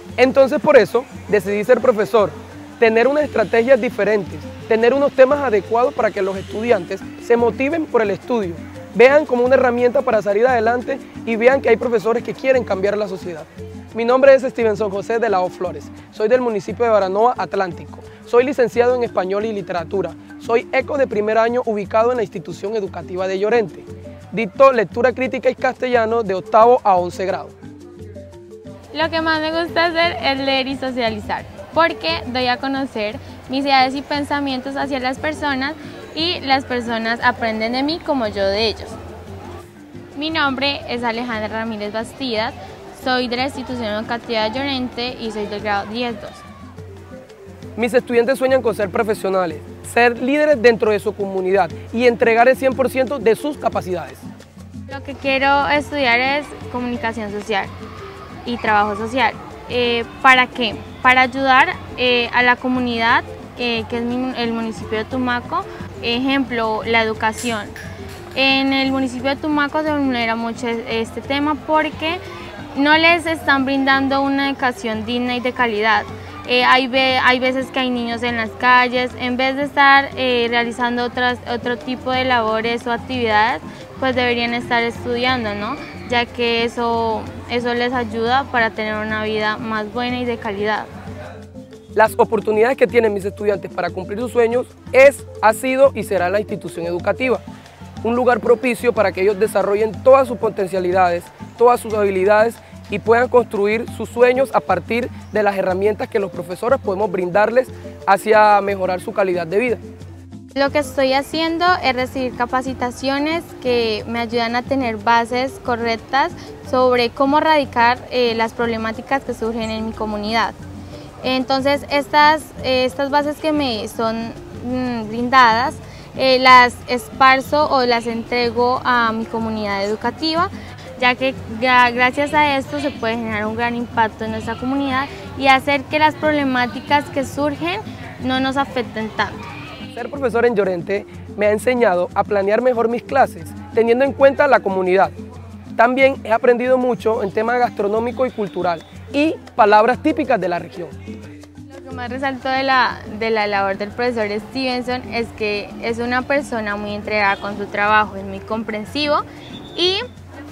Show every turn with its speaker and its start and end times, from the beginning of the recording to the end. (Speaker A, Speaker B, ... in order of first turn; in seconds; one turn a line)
Speaker A: 0.2-27.6
Speaker B: 28.9-39.0
Speaker B: 40.1-46.5
Speaker A: 47.8-54.2
Speaker B: 54.9-57.7
Speaker B: 58.5-67.8
Speaker B: 68.3-72.2
Speaker B: 72.7-90.9
Speaker A: 92.0-97.4
Speaker A: 98.0-109.8
Speaker B: 110.5-120.6
Speaker B: 121.2-139.5
Speaker A: 139.9-145.1
Speaker A: 145.8-150.9
Speaker B: 151.7-160.0